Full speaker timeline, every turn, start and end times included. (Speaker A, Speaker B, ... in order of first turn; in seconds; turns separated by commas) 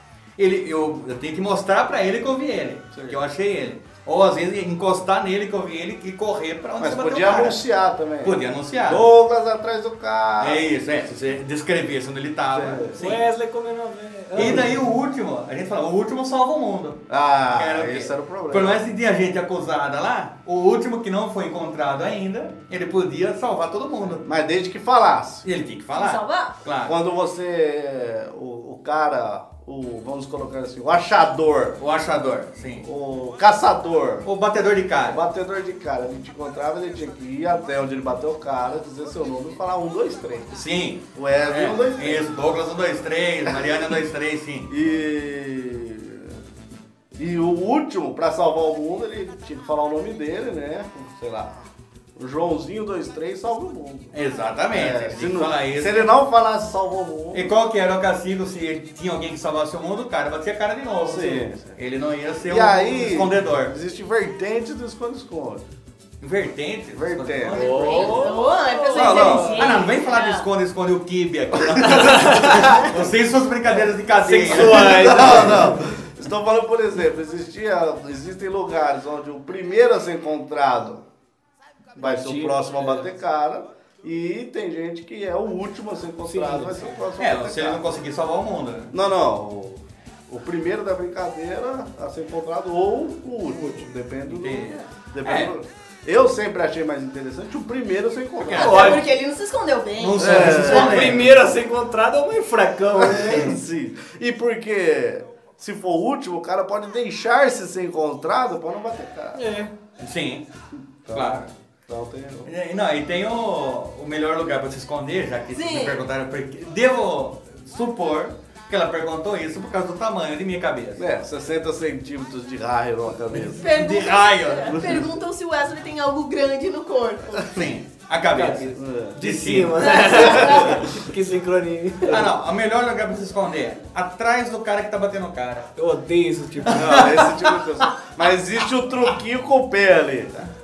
Speaker A: 0.4-7.6, Speaker B: 6.8-10.7, Speaker A: 8.2-9.1, Speaker A: 10.4-13.2, Speaker B: 12.5-13.0, Speaker C: 12.9-14.7, Speaker A: 14.3-24.2, Speaker B: 14.4-14.6, Speaker B: 17.1-18.8, Speaker B: 24.2-25.4, Speaker A: 25.4-27.0, Speaker D: 25.9-26.6, Speaker B: 26.8-31.8, Speaker A: 31.8-32.9, Speaker B: 32.8-34.3, Speaker A: 34.2-35.2, Speaker B: 35.0-40.6, Speaker A: 40.5-44.7, Speaker B: 41.1-42.3, Speaker B: 43.5-43.7, Speaker B: 44.7-46.4, Speaker B: 47.1-51.6, Speaker B: 52.1-54.1, Speaker A: 54.1-56.1, Speaker B: 54.7-57.5, Speaker A: 57.3-63.7, Speaker B: 61.0-61.8, Speaker B: 62.5-65.6, Speaker A: 66.2-68.4, Speaker B: 66.9-67.7, Speaker C: 67.5-69.8, Speaker D: 67.6-70.5, Speaker A: 68.9-75.7, Speaker B: 69.0-69.6, Speaker C: 71.8-72.9, Speaker C: 74.2-75.8, Speaker B: 74.5-81.0, Speaker B: 82.0-88.0, Speaker C: 82.0-83.1, Speaker C: 86.2-86.9, Speaker A: 87.2-88.9, Speaker B: 88.9-99.0, Speaker C: 93.5-93.9, Speaker A: 94.3-95.5, Speaker A: 98.4-99.1, Speaker C: 98.6-99.0, Speaker D: 98.6-100.9, Speaker A: 100.0-101.4, Speaker B: 100.2-101.2, Speaker C: 100.5-103.6, Speaker B: 102.9-109.4, Speaker A: 103.2-103.6, Speaker C: 109.3-109.7, Speaker A: 110.0-110.5, Speaker B: 111.0-112.5, Speaker A: 111.1-111.5, Speaker A: 112.5-121.0, Speaker D: 115.5-116.0, Speaker B: 121.0-123.7, Speaker A: 123.3-125.0, Speaker D: 123.5-127.5, Speaker B: 124.7-125.0, Speaker A: 127.4-130.5, Speaker C: 128.3-132.3, Speaker B: 128.7-129.2, Speaker D: 129.8-130.7, Speaker B: 130.4-130.9, Speaker A: 132.0-135.7, Speaker C: 135.8-137.1, Speaker A: 136.6-137.6, Speaker B: 136.7-140.5